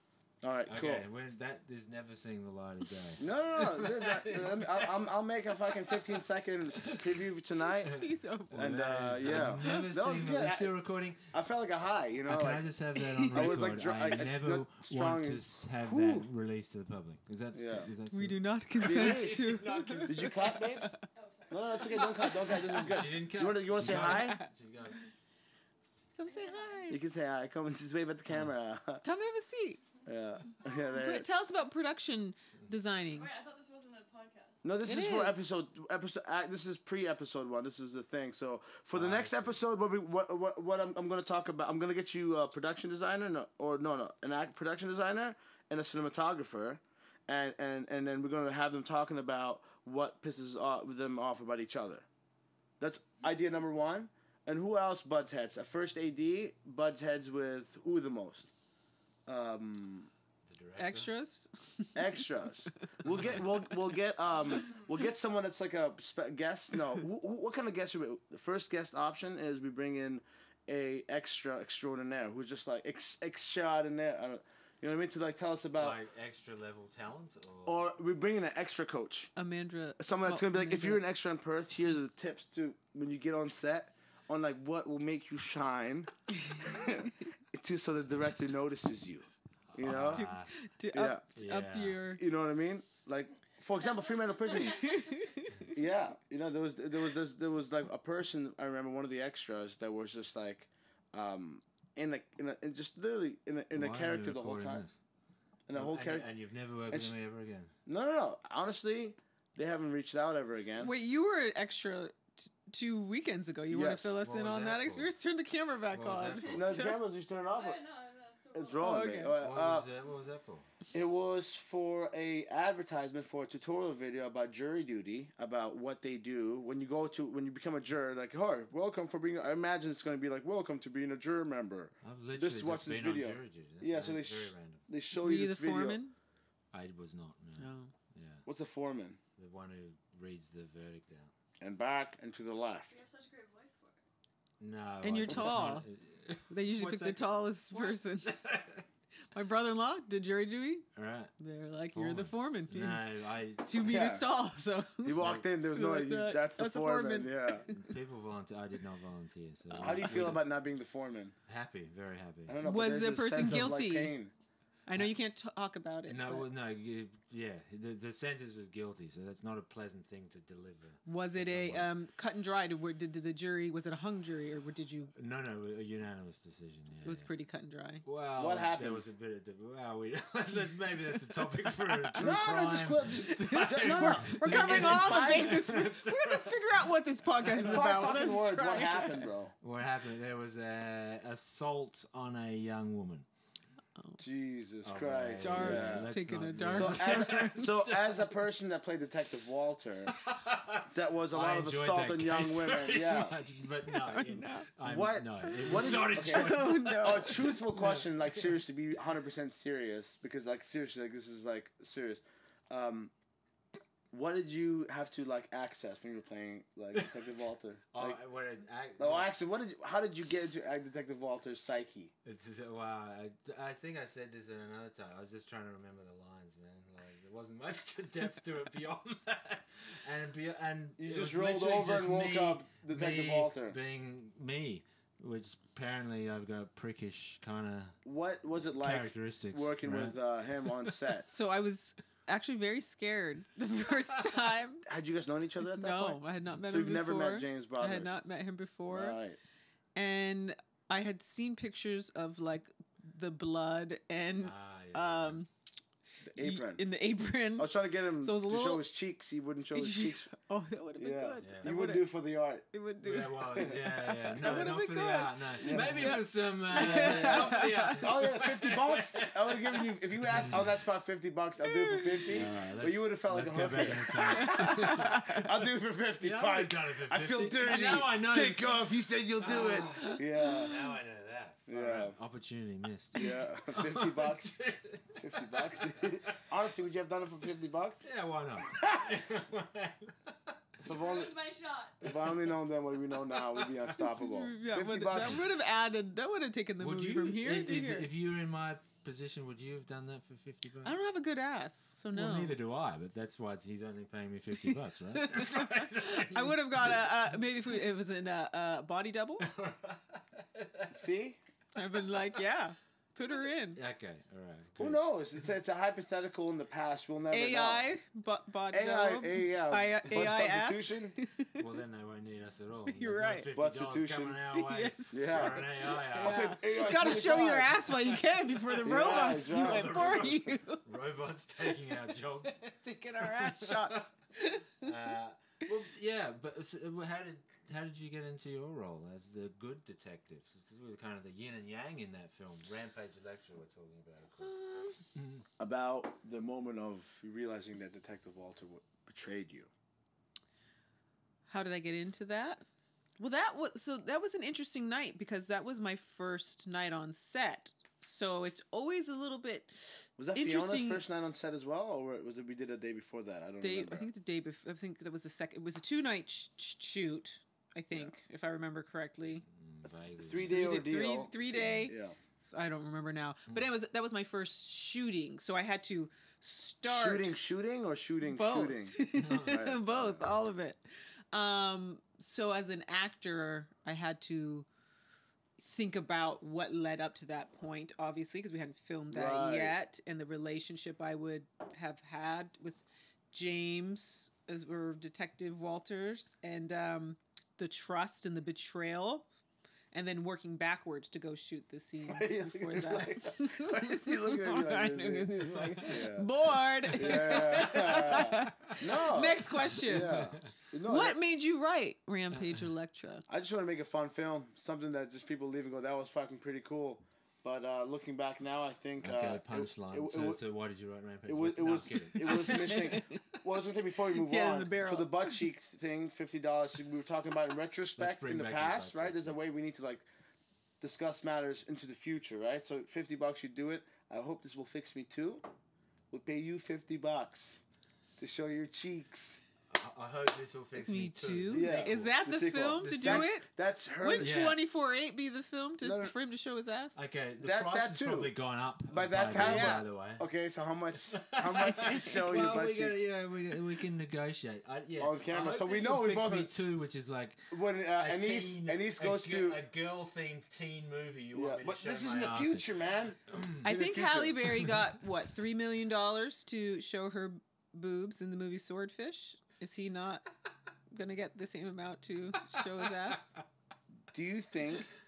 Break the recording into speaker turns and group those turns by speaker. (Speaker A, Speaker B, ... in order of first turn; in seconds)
Speaker A: 0.4-1.1, 3.2-7.9, 8.5-10.7, 11.3-12.7, 13.3-16.3, 17.5-17.9, 18.8-19.4, 20.1-21.0, 21.5-24.4, 26.9-29.0, 30.1-31.3, 34.6-52.1, 52.8-58.5, 59.3-60.1, 62.0-76.0, 77.7-79.3, 80.0-90.2, 90.9-91.2, 92.2-94.8, 95.7-104.8, 105.7-106.3, 106.9-107.2, 107.9-110.9, 113.7-114.2, 116.5-117.8, 118.5-119.9, 120.9-136.0, 138.5-139.2, 141.6-143.0, 153.8-154.3, 155.1-157.7, 159.8-161.3, 162.5-164.3, 178.4-179.1, 182.2-185.7, 187.5-189.5, 194.2-196.1, 196.7-200.2, 200.9-203.4, 204.8-213.1, 214.1-218.2, 219.0-222.1, 231.0-233.8, 238.0-241.3, 244.8-248.2, 248.9-249.4, 256.3-256.8, 257.6-260.3, 261.0-262.7, 264.3-264.6, 265.6-266.2, 266.7-280.9, 281.7-282.1, 283.1-284.6, 285.2-288.0, 288.7-289.1, 290.8-291.4, 292.0-295.4, 310.9-311.4, 314.8-317.9, 318.7-321.2, 323.5-324.4, 325.1-327.9, 328.8-330.3, 345.6-349.7, 360.2-364.1, 370.2-372.2, 376.9-380.3, 389.1-389.8, 402.1-406.3, 406.9-411.2, 413.3-420.4, 421.3-430.1, 430.8-435.5, 436.1-437.6, 438.2-439.4, 441.5-444.4, 445.8-446.1, 447.4-448.3, 448.9-453.0, 455.0-456.5, 457.5-459.6, 461.3-464.7, 474.1-474.9
Speaker B: 0.7-5.0, 5.7-6.1, 6.7-7.2, 7.8-11.3, 12.3-20.6, 22.7-25.0, 38.9-39.6, 60.5-61.1, 63.0-63.5, 75.8-77.8, 89.8-90.5, 91.3-92.0, 103.7-105.0, 105.7-107.7, 114.2-115.1, 115.9-116.7, 119.4-120.7, 132.0-134.8, 136.7-138.4, 139.4-141.3, 144.6-148.8, 150.9-151.3, 151.9-153.9, 155.2-155.4, 157.7-160.5, 161.5-162.6, 163.4-163.7, 166.1-171.9, 175.2-177.3, 178.0-188.1, 189.6-193.3, 194.8-198.3, 200.1-208.6, 217.9-219.3, 222.2-238.0, 238.6-240.9, 254.4-255.4, 261.4-261.8, 263.0-270.8, 272.3-275.5, 276.2-286.4, 288.0-290.8, 293.4-293.8, 296.8-300.9, 302.1-307.1, 309.4-311.1, 313.8-315.0, 321.6-326.9, 328.6-332.6, 333.2-333.9, 334.8-344.6, 345.1-345.4, 369.5-370.6, 371.5-371.9, 379.2-379.6, 407.1-408.1, 410.0-410.4, 419.0-422.9, 428.0-429.4, 439.7-442.2, 442.7-443.3, 444.2-444.6, 447.0-450.2, 451.0-462.7, 463.3-463.6
Speaker C: 7.8-9.9, 13.0-13.5, 18.1-21.0, 23.9-25.0, 26.2-27.0, 29.0-29.8, 30.9-33.3, 34.8-35.4, 60.8-62.2, 79.4-81.0, 90.1-92.2, 94.5-95.7, 110.8-117.0, 118.8-119.4, 135.2-136.1, 137.6-137.9, 145.0-145.9, 146.5-148.5, 149.3-157.9, 159.7-160.3, 162.6-164.1, 164.9-166.5, 171.1-175.1, 177.0-178.0, 183.3-189.3, 195.4-197.7, 203.9-204.7, 205.5-207.6, 241.2-244.8, 245.6-249.2, 249.9-255.5, 256.4-258.9, 259.7-262.1, 262.7-263.8, 264.4-268.0, 271.6-272.4, 273.9-275.5, 280.0-280.5, 293.9-298.1, 300.8-302.6, 304.6-309.5, 311.8-313.8, 317.3-321.7, 322.9-323.5, 324.5-330.8, 331.7-334.9, 344.4-345.0, 351.5-352.6, 353.2-361.0, 363.6-369.4, 370.4-377.4, 378.2-384.7, 385.6-399.3, 399.9-413.2, 422.2-423.4, 424.1-425.4, 440.8-443.5, 444.0-447.1, 449.4-449.7, 463.6-470.3, 470.9-473.4
Speaker D: 21.1-22.9, 26.3-26.8, 33.1-34.6, 93.8-95.8, 117.5-119.1, 142.9-144.1, 290.9-292.1